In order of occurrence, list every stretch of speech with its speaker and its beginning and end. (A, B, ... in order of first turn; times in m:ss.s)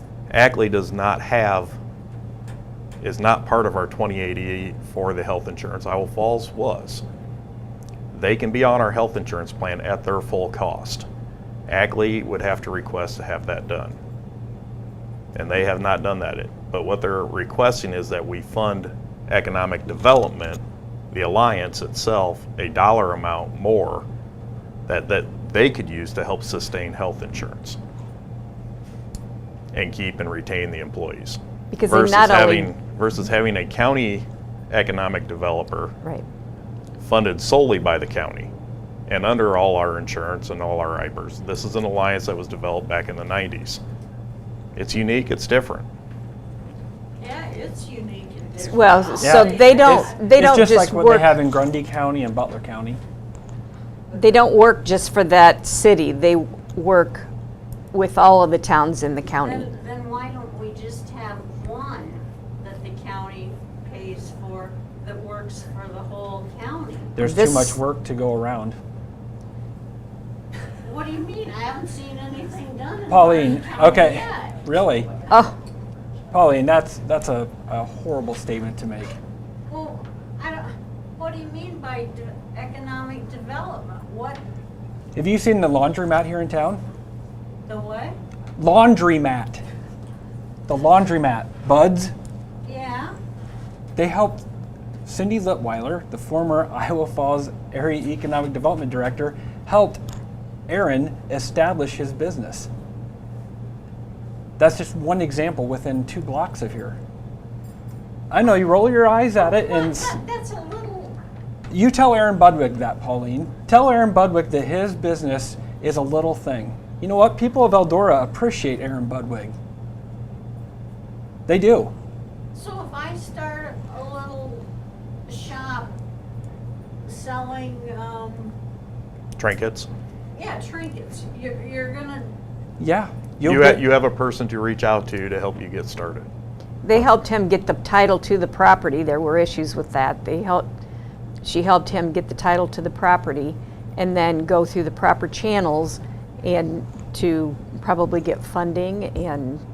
0:00.3-0:01.8 A
0:03.0-0:07.0 A
0:08.1-0:11.1 A
0:11.7-0:14.0 A
0:15.3-0:24.0 A
0:24.9-0:27.8 A
0:29.7-0:35.9 A
0:31.7-0:32.7 B
0:37.0-0:38.5 A
0:39.1-0:43.8 A
0:44.8-0:45.9 A
0:47.2-0:50.2 C
0:48.7-0:51.3 B
0:49.2-0:53.0 D
0:54.1-0:57.3 B
0:57.9-0:59.7 B
0:59.3-1:07.2 C
1:07.2-1:08.8 D
1:07.2-1:07.8 B
1:10.8-1:14.8 C
1:13.1-1:15.1 D
1:15.3-1:15.5 B
1:16.3-1:19.2 D
1:19.7-1:24.4 C
1:25.2-1:26.8 D
1:27.6-1:28.2 C
1:28.6-1:29.6 D
1:30.7-1:32.1 D
1:32.6-1:33.1 C
1:34.0-1:34.4 D
1:35.0-1:40.0 D
1:40.7-1:42.7 D
1:44.6-1:47.0 D
1:48.3-1:50.1 D
1:49.4-1:51.2 C
1:51.7-1:59.5 D
2:01.5-2:01.9 D
2:02.5-2:04.7 C
2:05.3-2:05.9 C
2:07.0-2:08.5 C
2:09.4-2:09.9 A
2:10.3-2:12.3 C
2:12.8-2:13.8 D
2:13.4-2:16.3 A
2:16.8-2:20.7 B
2:21.4-2:29.6 B